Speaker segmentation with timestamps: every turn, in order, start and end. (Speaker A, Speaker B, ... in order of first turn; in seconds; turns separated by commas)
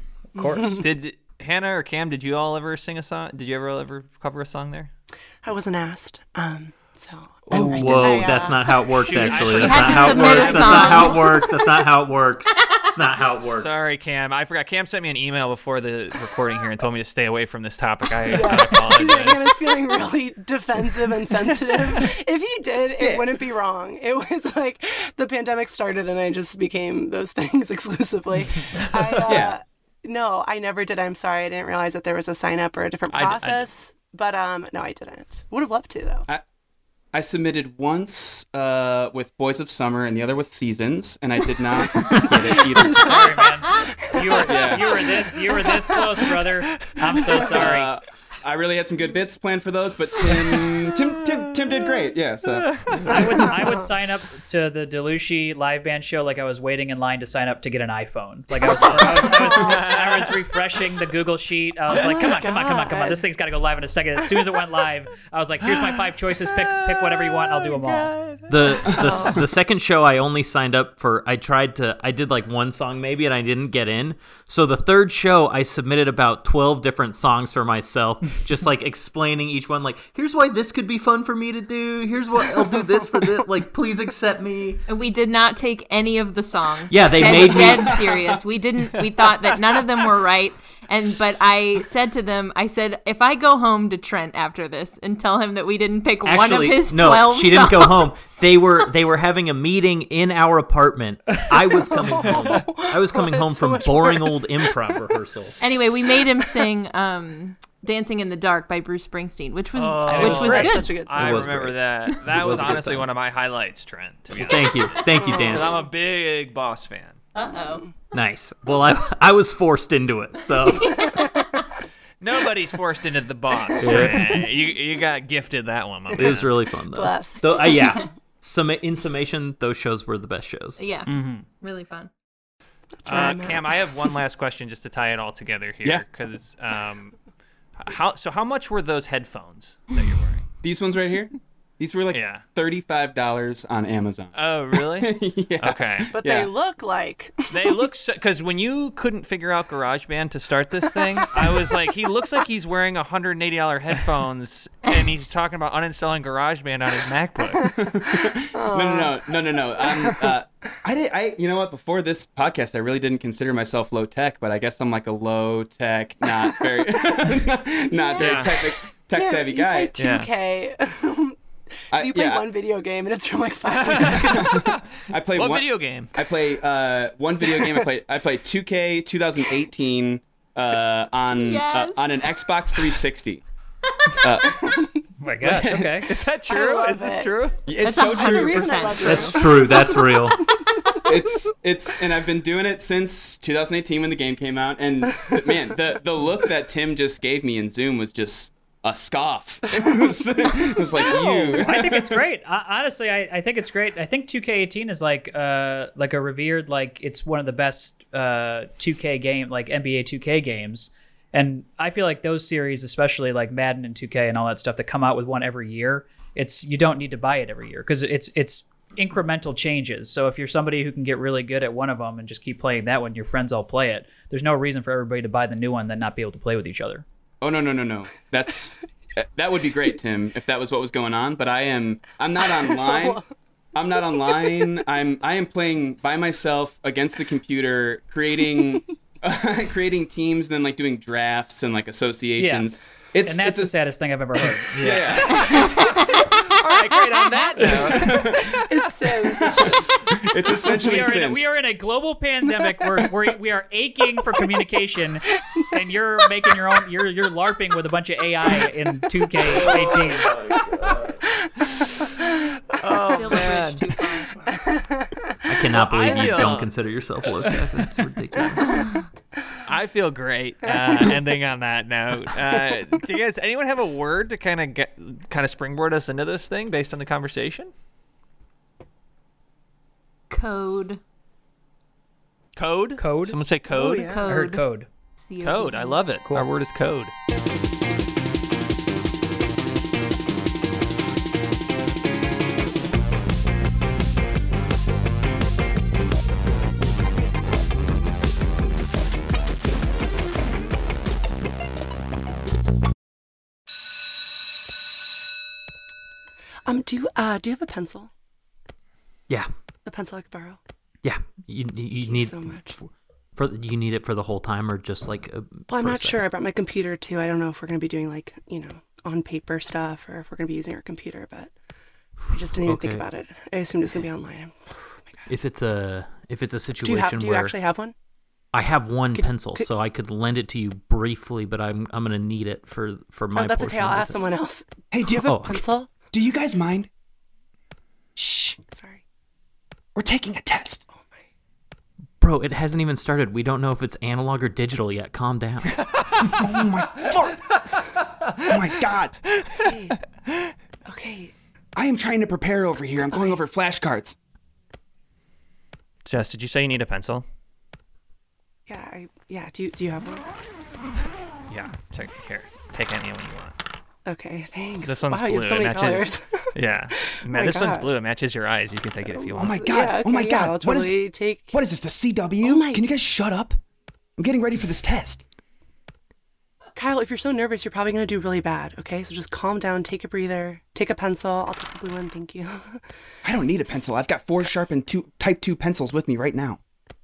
Speaker A: 0.4-0.8, Speaker B: 0.4-0.8, Speaker C: 0.8-4.9, Speaker B: 5.4-11.4, Speaker A: 7.5-8.1, Speaker D: 7.5-7.9, Speaker E: 7.5-13.9, Speaker C: 8.9-11.2, Speaker F: 9.2-11.6, Speaker F: 12.6-12.9, Speaker C: 13.5-19.5, Speaker B: 18.3-36.3, Speaker D: 23.0-23.3, Speaker D: 29.2-29.6, Speaker C: 33.1-33.6, Speaker D: 37.1-43.5, Speaker A: 42.8-47.9, Speaker B: 42.8-45.2, Speaker D: 44.4-45.1, Speaker D: 47.3-53.3, Speaker C: 52.7-53.2, Speaker A: 53.0-68.2, Speaker C: 58.8-60.4, Speaker B: 61.9-63.2, Speaker B: 67.7-68.1, Speaker E: 68.5-84.8, Speaker B: 68.8-69.5, Speaker F: 84.9-98.8, Speaker E: 86.9-88.1, Speaker E: 96.2-105.6, Speaker B: 101.9-105.0, Speaker C: 102.2-102.6, Speaker F: 105.6-111.0, Speaker C: 109.8-117.2, Speaker A: 110.1-110.6, Speaker B: 110.2-111.5, Speaker E: 111.1-113.1, Speaker E: 114.3-115.8, Speaker F: 115.0-115.2, Speaker B: 115.1-115.8, Speaker F: 117.3-117.9, Speaker E: 118.1-121.3, Speaker F: 120.9-121.5, Speaker C: 122.2-126.5, Speaker E: 123.8-124.5, Speaker E: 126.2-130.8, Speaker B: 126.9-128.1, Speaker F: 130.8-132.1, Speaker A: 131.1-131.5, Speaker B: 133.0-133.8, Speaker C: 133.1-137.2, Speaker C: 137.8-140.4, Speaker D: 140.6-146.5, Speaker C: 142.1-142.4, Speaker C: 144.3-146.1, Speaker B: 146.1-147.6, Speaker C: 147.5-157.7, Speaker B: 157.6-159.3, Speaker D: 157.8-170.0, Speaker B: 166.7-167.3, Speaker B: 167.9-171.4, Speaker C: 168.2-168.5, Speaker C: 170.0-170.3, Speaker D: 171.9-172.5, Speaker B: 171.9-174.6, Speaker C: 173.7-176.2, Speaker D: 174.1-183.4, Speaker F: 181.3-182.5, Speaker D: 184.1-184.9, Speaker A: 185.2-186.1, Speaker D: 185.4-186.1, Speaker C: 186.0-187.6, Speaker B: 186.5-187.3, Speaker D: 187.7-189.5, Speaker F: 187.8-189.6, Speaker B: 188.0-190.7, Speaker E: 189.1-190.4, Speaker D: 191.0-202.2, Speaker A: 201.1-227.1, Speaker D: 227.4-233.2, Speaker B: 232.7-233.2, Speaker D: 233.8-243.7, Speaker A: 242.4-242.7, Speaker A: 243.2-245.1, Speaker E: 244.7-245.2, Speaker D: 244.8-245.9, Speaker C: 245.2-248.6, Speaker F: 245.5-246.2, Speaker D: 247.6-248.7, Speaker B: 248.4-249.8, Speaker D: 249.2-251.4, Speaker A: 250.6-260.4, Speaker E: 260.2-261.0, Speaker C: 262.7-263.9, Speaker F: 262.8-264.5, Speaker B: 264.5-265.3, Speaker E: 265.5-268.9, Speaker C: 265.7-266.7, Speaker B: 268.4-268.6, Speaker C: 269.6-277.7, Speaker F: 280.3-281.0, Speaker C: 282.6-284.1, Speaker A: 283.0-283.4, Speaker B: 283.7-284.2, Speaker F: 283.9-284.6, Speaker A: 284.3-284.9, Speaker F: 285.2-286.0, Speaker C: 285.4-287.1, Speaker B: 306.7-308.1, Speaker B: 309.9-310.6, Speaker E: 311.0-316.2, Speaker B: 312.0-312.8, Speaker B: 315.7-321.5, Speaker E: 322.3-323.1, Speaker B: 322.3-325.3, Speaker E: 325.3-327.6, Speaker B: 326.8-327.9, Speaker E: 328.5-334.3, Speaker B: 329.1-329.7, Speaker B: 333.4-335.9, Speaker D: 334.9-335.6, Speaker E: 335.2-335.6, Speaker D: 336.1-336.9, Speaker D: 338.2-338.6, Speaker B: 338.7-339.0, Speaker D: 339.9-340.8, Speaker B: 340.9-341.2, Speaker E: 342.2-345.8, Speaker C: 345.9-346.3, Speaker D: 346.3-347.6, Speaker D: 348.4-349.2, Speaker B: 349.6-350.0, Speaker B: 350.9-351.3, Speaker D: 351.8-354.2, Speaker B: 353.1-353.4, Speaker C: 356.1-357.2, Speaker B: 358.7-360.2, Speaker C: 361.5-363.6, Speaker B: 364.1-367.9, Speaker C: 364.8-369.6, Speaker B: 369.1-371.6, Speaker D: 369.4-371.0, Speaker D: 371.5-373.6, Speaker B: 372.4-372.8, Speaker D: 374.2-375.2, Speaker B: 376.8-382.8, Speaker D: 383.2-386.6